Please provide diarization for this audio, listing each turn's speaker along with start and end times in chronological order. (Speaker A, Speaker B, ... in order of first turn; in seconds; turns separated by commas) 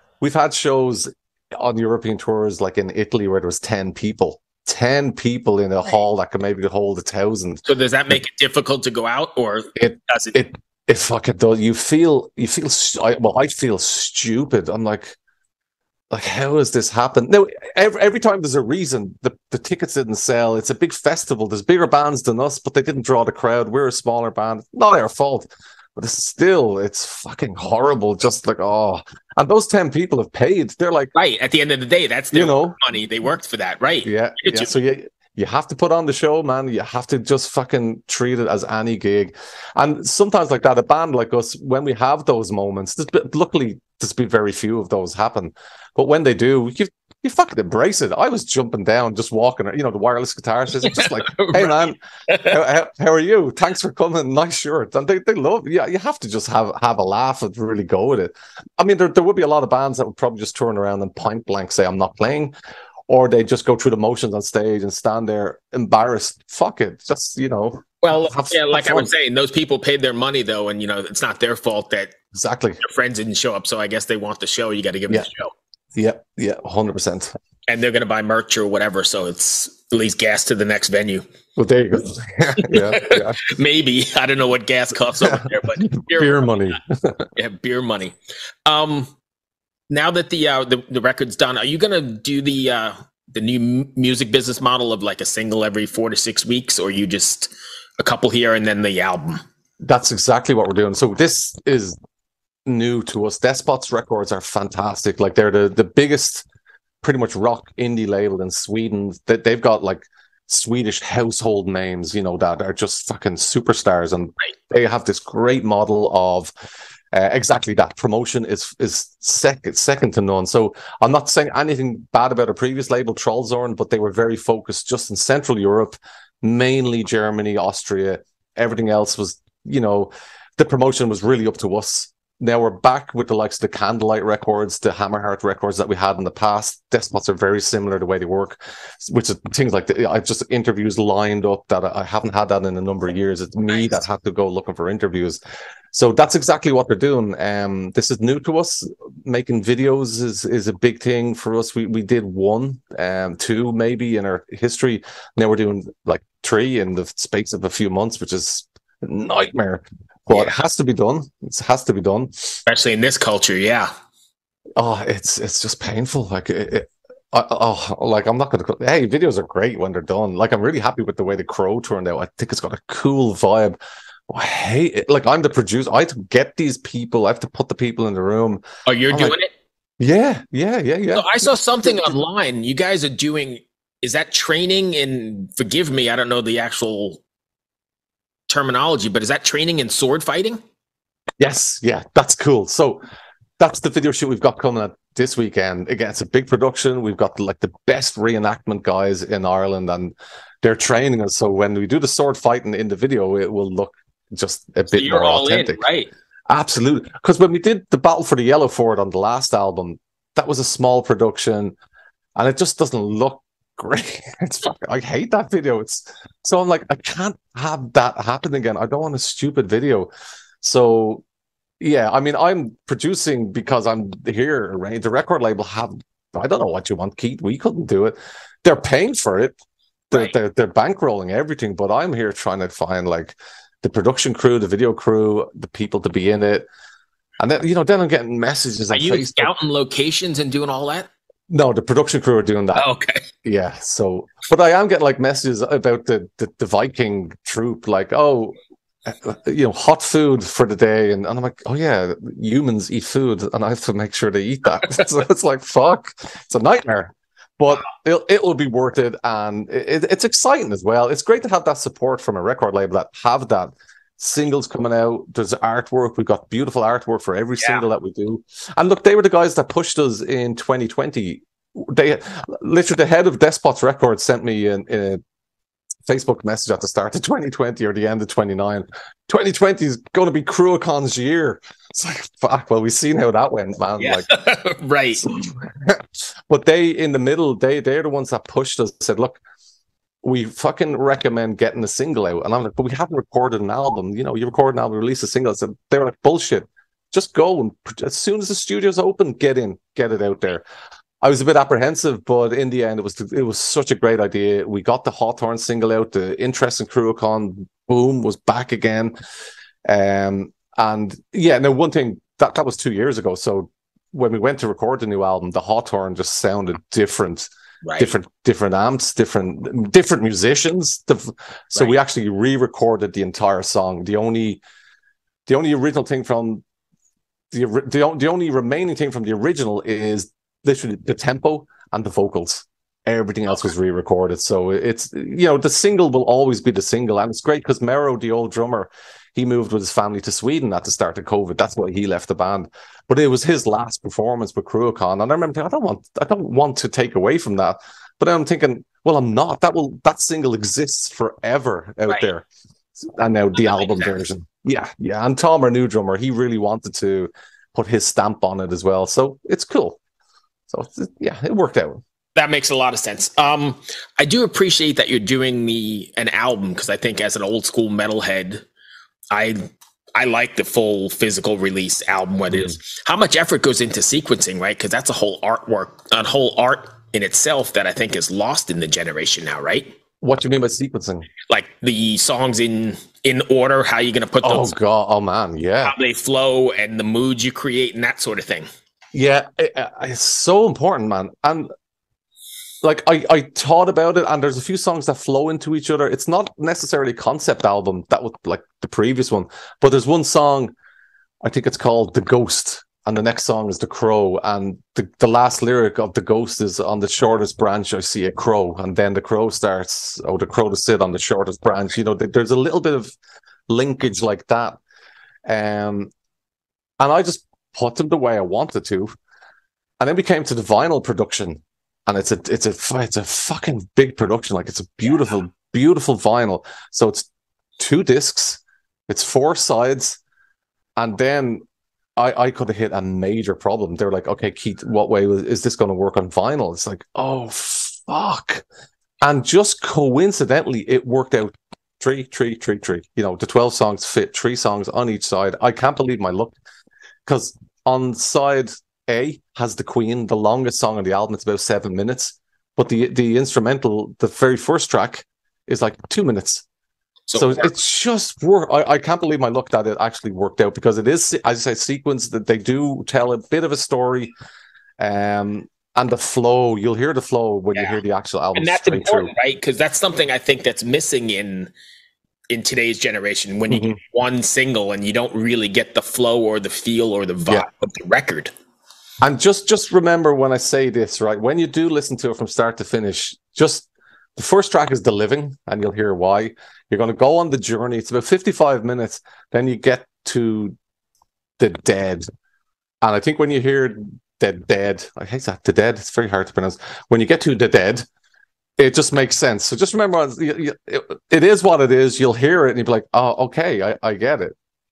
Speaker A: 0.2-7.6, Speaker B: 7.7-10.3, Speaker A: 9.8-15.2, Speaker A: 16.1-31.1, Speaker B: 31.1-34.7, Speaker A: 32.3-32.8, Speaker A: 34.0-62.5, Speaker B: 50.9-52.5, Speaker A: 63.1-69.1, Speaker B: 68.0-72.1, Speaker A: 72.3-72.8, Speaker B: 72.8-75.5, Speaker A: 75.9-77.3, Speaker B: 77.7-81.2, Speaker A: 81.5-83.5, Speaker B: 82.6-86.5, Speaker A: 85.2-87.3, Speaker B: 87.3-89.1, Speaker B: 89.9-99.4, Speaker A: 99.8-102.0, Speaker A: 102.7-106.5, Speaker A: 107.0-116.5, Speaker A: 117.1-145.4, Speaker B: 143.7-144.0, Speaker A: 145.9-162.6, Speaker B: 162.7-163.9, Speaker A: 164.8-173.8, Speaker A: 174.3-179.3, Speaker B: 178.8-179.5, Speaker A: 180.0-181.5, Speaker B: 181.1-187.2, Speaker B: 188.5-190.6, Speaker A: 191.4-193.0, Speaker A: 193.6-205.8, Speaker B: 204.9-206.1, Speaker A: 206.5-211.7, Speaker A: 212.3-220.1, Speaker A: 220.6-221.2, Speaker A: 221.8-229.5, Speaker A: 230.1-236.7, Speaker A: 237.4-239.5, Speaker B: 238.9-241.1, Speaker A: 241.5-242.9, Speaker B: 242.7-243.2, Speaker A: 243.4-275.2, Speaker A: 276.1-284.3, Speaker B: 284.0-285.2, Speaker A: 285.2-289.4, Speaker A: 290.2-300.6, Speaker A: 301.2-309.1, Speaker A: 309.8-324.6, Speaker B: 317.8-318.1, Speaker A: 325.5-326.6, Speaker A: 327.5-352.4, Speaker A: 353.0-360.0, Speaker B: 353.6-354.1, Speaker A: 360.7-362.0, Speaker B: 362.3-368.6, Speaker B: 369.3-379.9, Speaker A: 380.2-381.3, Speaker B: 381.5-384.7, Speaker A: 384.4-385.9, Speaker B: 385.8-388.7, Speaker A: 389.1-391.7, Speaker A: 392.8-400.7, Speaker A: 401.4-413.1, Speaker A: 413.7-414.8, Speaker A: 415.4-416.1, Speaker A: 417.0-419.1, Speaker A: 420.0-430.2, Speaker A: 431.0-431.6, Speaker A: 432.2-438.6, Speaker A: 439.2-446.6, Speaker A: 447.2-456.6, Speaker B: 457.3-457.7, Speaker A: 457.3-464.3, Speaker A: 465.0-469.3, Speaker B: 468.5-471.7, Speaker B: 472.5-478.5, Speaker A: 473.7-474.0, Speaker A: 479.2-490.7, Speaker A: 491.6-492.2, Speaker A: 493.0-498.1, Speaker A: 498.8-504.5